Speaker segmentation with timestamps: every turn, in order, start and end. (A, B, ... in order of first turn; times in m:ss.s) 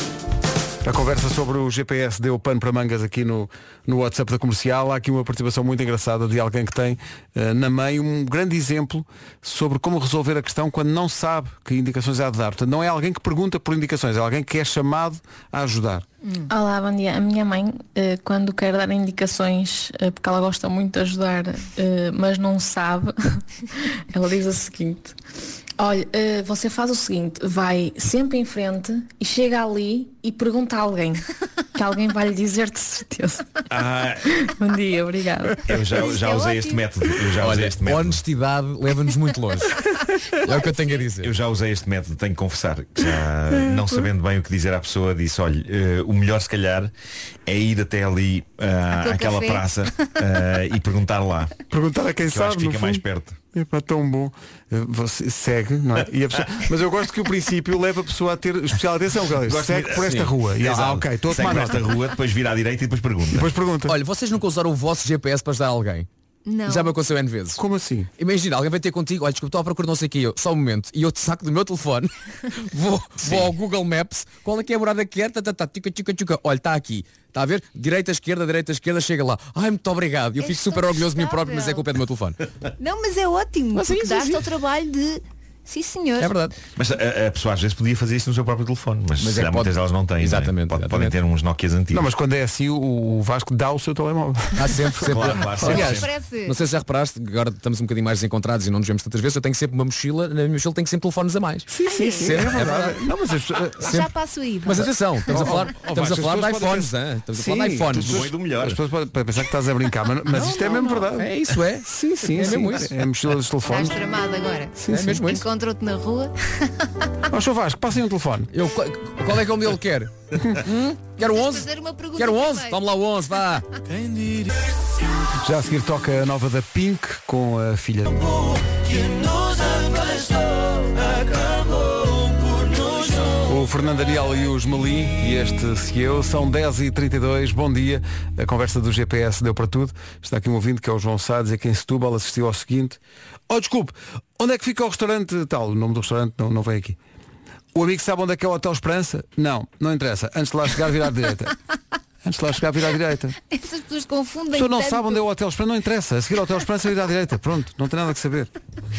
0:00.8-0:16.0 A
0:16.2-0:16.5 B
0:16.5-0:23.4 C
0:24.1-0:25.1 C
0:25.8-0:33.6 C
0:33.7-0:34.4 D
0:34.4-0:35.6 C
0:35.6-0:38.2 D
0:35.9-0:36.8 B
0:37.4-0:41.3 E
0:40.3-0:41.0 B
0:41.2-0:46.9 D
0:47.4-0:51.5 D
0:49.0-0:50.1 B
0:51.7-1:01.9 A
0:52.2-0:53.4 D
0:59.4-1:03.5 D
1:00.0-1:00.3 E
1:03.3-1:04.0 A
1:03.8-1:06.1 E
1:06.4-1:07.0 B
1:06.7-1:07.6 E
1:07.6-1:08.1 A
1:08.2-1:22.4 E
1:13.2-1:13.5 D
1:20.4-1:21.9 B
1:22.8-1:26.3 B
1:23.7-1:24.4 E
1:26.2-1:26.6 E
1:26.8-1:32.1 D
1:29.2-1:31.1 E
1:31.9-1:36.0 A
1:34.6-1:43.0 E
1:35.0-1:36.1 D
1:35.6-1:36.6 B
1:41.7-1:43.9 A
1:41.9-1:42.3 B
1:43.8-1:44.1 E
1:43.8-1:45.4 B
1:44.6-1:48.3 E
1:45.3-1:54.0 A
1:47.9-1:48.8 D
1:50.3-1:52.9 E
1:53.6-1:56.9 B
1:54.8-1:55.2 A
1:54.9-1:55.4 E
1:57.3-1:58.5 A
1:58.5-2:03.7 E
2:01.2-2:02.8 B
2:03.9-2:04.5 F
2:05.4-2:08.1 A
2:08.1-2:13.4 F
2:13.5-2:27.0 A
2:27.7-2:31.6 A
2:32.2-2:33.4 A
2:33.5-2:35.2 B
2:34.5-2:38.5 A